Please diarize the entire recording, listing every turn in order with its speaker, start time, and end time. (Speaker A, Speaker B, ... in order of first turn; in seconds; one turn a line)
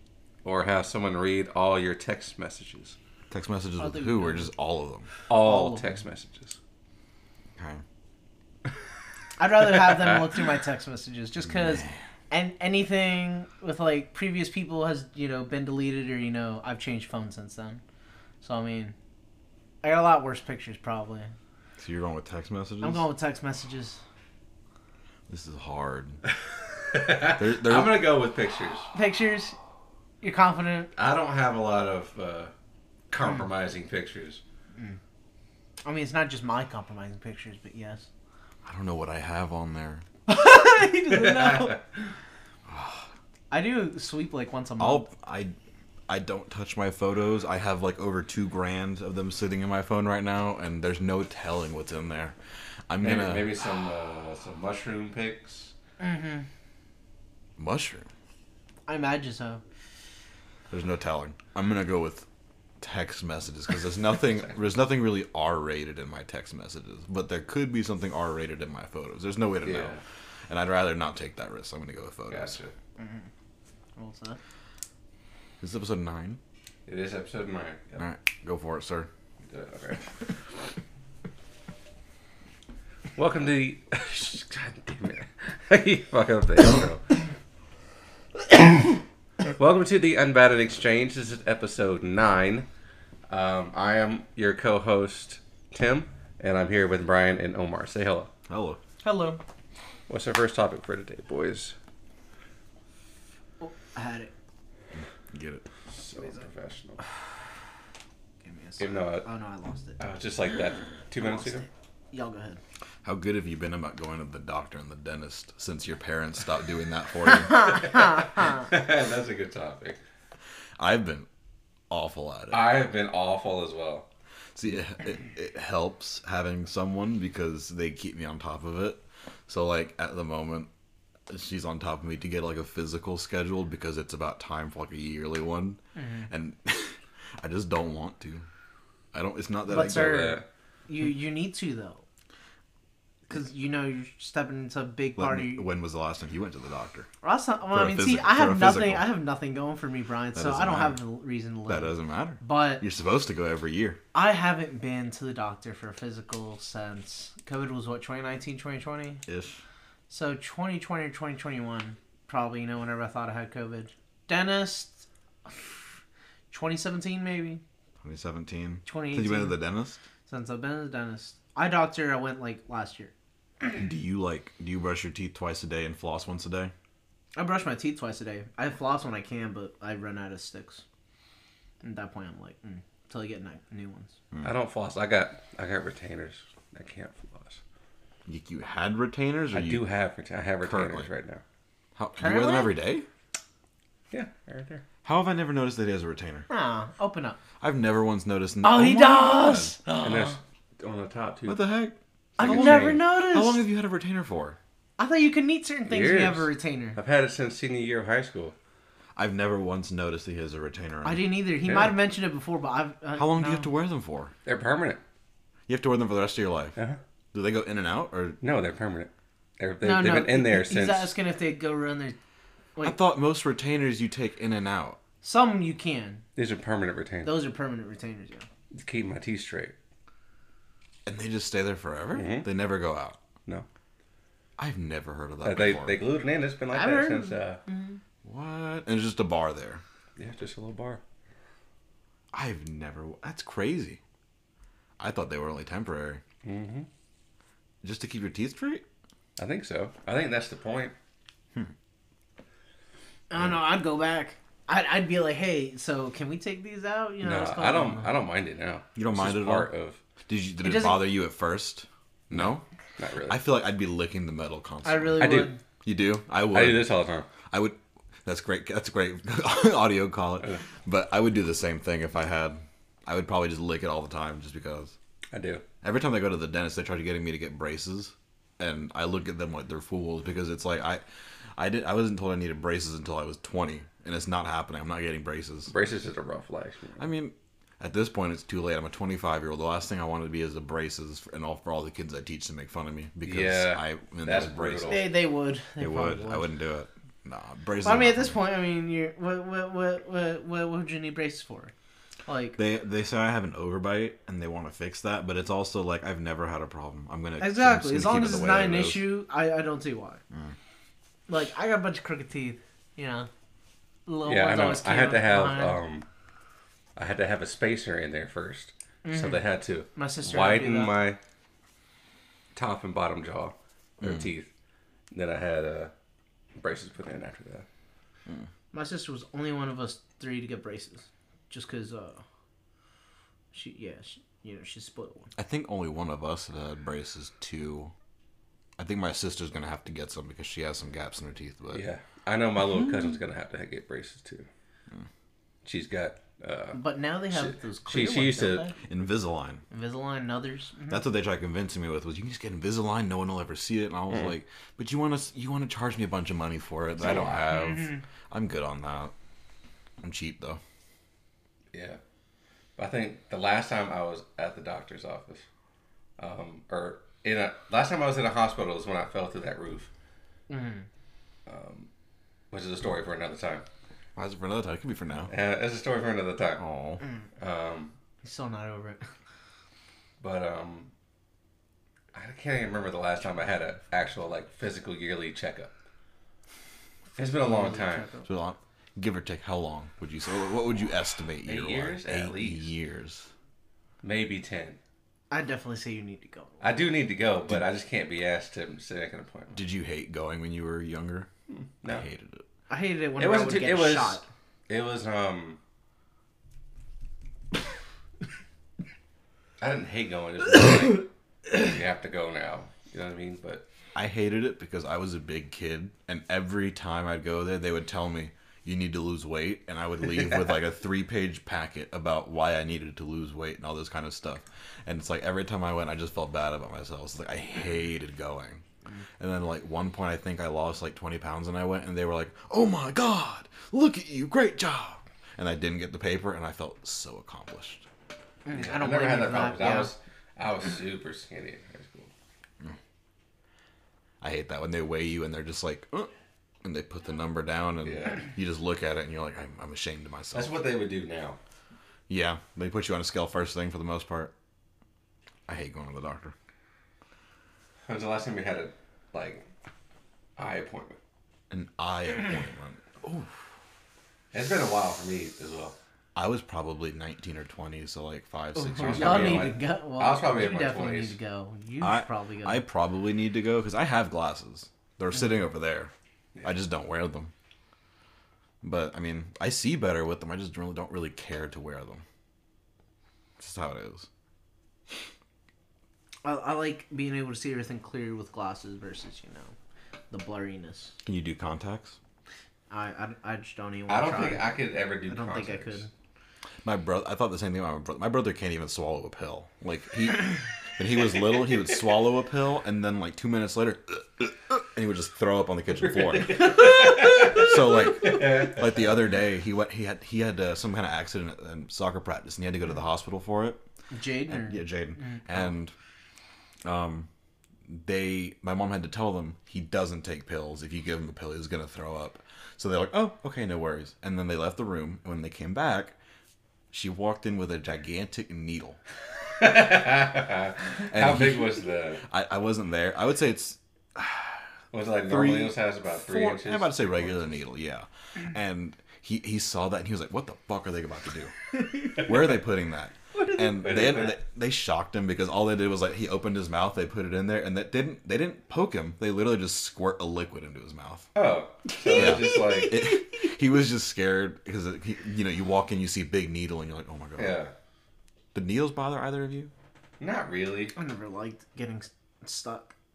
Speaker A: 0.4-3.0
Speaker B: 3.3-5.1
Speaker C: 3.8-4.5
Speaker A: 5.3-6.6
Speaker C: 5.3-6.0
Speaker C: 9.4-17.8
Speaker B: 11.4-12.0
Speaker C: 18.4-18.9
Speaker C: 19.8-21.3
Speaker B: 21.8-23.1
Speaker C: 22.8-24.0
Speaker B: 25.3-26.2
Speaker A: 26.9-28.9
Speaker B: 27.2-28.1
Speaker C: 28.9-29.6
Speaker C: 30.2-30.9
Speaker A: 30.9-32.5
Speaker A: 33.1-34.4
Speaker C: 35.8-38.1
Speaker B: 38.6-40.0
Speaker C: 40.3-41.8
Speaker A: 41.1-41.8
Speaker B: 42.7-43.1
Speaker C: 43.5-45.0
Speaker B: 44.8-45.5
Speaker B: 46.1-52.4
Speaker B: 52.9-53.5
Speaker A: 53.0-55.7
Speaker C: 56.0-56.5
Speaker B: 57.6-58.1
Speaker C: 58.9-59.6
Speaker B: 60.7-62.3
Speaker B: 62.8-72.6
Speaker A: 69.7-70.0
Speaker A: 72.3-72.7
Speaker C: 73.0-73.3
Speaker C: 74.0-74.4
Speaker B: 75.6-76.4
Speaker A: 76.9-78.0
Speaker B: 78.0-79.1
Speaker A: 79.5-80.1
Speaker A: 83.2-87.2
Speaker A: 89.5-92.7
Speaker A: 93.3-98.3
Speaker B: 98.5-98.8
Speaker C: 99.0-99.4
Speaker A: 100.1-101.8
Speaker C: 103.6-104.3
Speaker B: 105.0-105.7
Speaker A: 105.9-107.0
Speaker C: 108.4-110.0
Speaker A: 108.8-109.3
Speaker A: 110.0-111.7
Speaker C: 111.2-112.6
Speaker B: 113.0-117.8
Speaker A: 117.5-120.0
Speaker B: 120.8-121.3
Speaker B: 121.9-122.7
Speaker A: 122.5-124.0
Speaker B: 124.5-130.7
Speaker B: 131.3-138.4
Speaker C: 136.0-136.3
Speaker B: 139.1-140.4
Speaker C: 139.7-142.0
Speaker A: 139.7-140.4
Speaker C: 143.3-145.7
Speaker B: 145.1-147.1
Speaker C: 147.2-152.8
Speaker B: 147.7-149.1
Speaker B: 150.3-151.0
Speaker B: 151.7-154.0
Speaker C: 154.1-159.2
Speaker B: 159.2-159.6
Speaker C: 160.1-165.8
Speaker C: 166.5-167.6
Speaker B: 168.0-170.0
Speaker C: 168.8-169.6
Speaker C: 170.3-173.7
Speaker B: 173.7-176.7
Speaker C: 177.3-180.8
Speaker C: 181.8-184.2
Speaker A: 184.4-187.6
Speaker B: 188.2-189.8
Speaker A: 189.5-191.4
Speaker B: 190.6-191.1
Speaker B: 191.9-193.1
Speaker C: 192.2-192.7
Speaker A: 194.1-194.8
Speaker B: 195.0-196.5
Speaker C: 196.5-197.4
Speaker B: 197.6-200.4
Speaker C: 198.6-199.8
Speaker A: 200.0-201.6
Speaker B: 201.4-204.6
Speaker A: 202.3-203.0
Speaker C: 202.4-203.6
Speaker C: 205.0-207.0
Speaker A: 205.8-208.5
Speaker B: 209.2-211.3
Speaker C: 211.0-213.7
Speaker A: 211.7-211.9
Speaker B: 213.1-214.3
Speaker A: 214.4-215.0
Speaker B: 215.7-216.8
Speaker B: 217.3-218.4
Speaker A: 218.4-221.1
Speaker C: 219.8-222.2
Speaker B: 222.8-225.0
Speaker C: 225.2-226.2
Speaker A: 226.3-227.3
Speaker C: 227.2-228.4
Speaker A: 228.7-229.8
Speaker B: 231.1-233.2
Speaker A: 232.1-232.5
Speaker B: 234.6-236.0
Speaker A: 235.4-237.6
Speaker C: 236.7-238.0
Speaker B: 238.2-239.8
Speaker A: 240.2-241.0
Speaker B: 242.3-244.0
Speaker B: 245.0-246.2
Speaker A: 246.4-246.9
Speaker B: 247.8-248.8
Speaker A: 249.4-250.9
Speaker C: 253.3-258.1
Speaker A: 257.2-260.0
Speaker B: 258.9-259.7
Speaker B: 260.3-262.6
Speaker C: 260.6-261.1
Speaker A: 262.3-263.4
Speaker B: 263.3-266.9
Speaker C: 264.8-265.6
Speaker A: 265.2-265.5
Speaker A: 266.5-267.3
Speaker B: 267.4-274.9
Speaker A: 270.4-270.6
Speaker A: 275.3-275.6
Speaker B: 275.8-281.0
Speaker B: 281.6-285.7
Speaker A: 285.7-287.1
Speaker B: 287.0-295.1
Speaker A: 293.2-295.1
Speaker C: 294.9-296.5
Speaker B: 295.8-298.4
Speaker C: 297.8-301.7
Speaker C: 302.2-302.6
Speaker B: 302.6-309.1
Speaker C: 307.4-310.2
Speaker B: 310.3-310.6
Speaker C: 311.3-313.3
Speaker C: 314.1-315.8
Speaker A: 314.2-316.1
Speaker A: 316.9-321.2
Speaker C: 319.0-319.4
Speaker C: 319.9-320.9
Speaker A: 322.6-324.5
Speaker B: 324.0-324.3
Speaker A: 325.1-325.9
Speaker A: 326.6-327.7
Speaker C: 328.7-332.2
Speaker C: 333.5-335.3
Speaker B: 335.4-337.9
Speaker B: 338.8-341.8
Speaker A: 341.7-344.5
Speaker A: 345.6-346.8
Speaker C: 346.7-348.8
Speaker A: 347.3-348.7
Speaker B: 348.8-349.6
Speaker C: 349.7-351.1
Speaker B: 350.9-359.1
Speaker A: 357.0-357.5
Speaker C: 357.4-358.0
Speaker B: 360.0-360.6
Speaker A: 361.7-362.0
Speaker A: 362.8-365.4
Speaker A: 366.2-369.9
Speaker C: 370.5-370.9
Speaker A: 371.5-371.9
Speaker A: 372.5-373.6
Speaker B: 374.1-375.3
Speaker A: 375.3-376.6
Speaker B: 376.6-377.0
Speaker A: 377.4-377.9
Speaker C: 378.2-379.1
Speaker A: 380.2-380.9
Speaker A: 382.1-385.7
Speaker A: 387.1-388.1
Speaker C: 387.2-388.3
Speaker B: 388.2-393.3
Speaker A: 391.4-392.7
Speaker A: 394.0-394.8
Speaker C: 395.3-396.6
Speaker A: 396.6-399.6
Speaker B: 399.5-401.3
Speaker A: 401.5-402.1
Speaker B: 401.9-402.4
Speaker C: 402.7-404.2
Speaker A: 403.2-405.6
Speaker A: 409.6-413.6
Speaker B: 413.9-428.6
Speaker B: 429.2-437.9
Speaker C: 438.4-439.9
Speaker A: 438.5-442.1
Speaker B: 444.2-446.1
Speaker B: 446.6-450.6
Speaker A: 447.8-448.2
Speaker A: 450.3-451.4
Speaker B: 452.1-454.3
Speaker B: 455.5-456.3
Speaker A: 457.9-459.4
Speaker A: 460.4-461.0
Speaker B: 461.5-463.3
Speaker A: 464.3-465.8
Speaker B: 466.1-469.5
Speaker C: 468.6-472.6
Speaker A: 468.8-471.1
Speaker B: 471.8-475.9
Speaker B: 476.4-477.3
Speaker B: 478.6-482.0
Speaker B: 483.4-484.1
Speaker C: 486.2-489.5
Speaker C: 490.1-490.9
Speaker B: 491.1-492.0
Speaker C: 492.7-495.9
Speaker A: 493.9-495.9
Speaker B: 496.6-513.6
Speaker A: 505.8-508.9
Speaker C: 506.6-507.5
Speaker C: 513.9-515.4
Speaker B: 514.2-515.7
Speaker B: 516.6-517.1
Speaker B: 517.6-526.0
Speaker B: 526.7-528.8
Speaker A: 529.4-532.0
Speaker B: 530.9-534.5
Speaker A: 534.7-537.3
Speaker B: 535.0-551.1
Speaker C: 543.2-543.9
Speaker A: 543.6-544.1
Speaker A: 551.1-552.8
Speaker C: 551.8-553.3
Speaker B: 551.9-557.4
Speaker A: 557.1-557.5
Speaker B: 558.3-559.5
Speaker A: 560.0-560.7
Speaker C: 560.8-562.7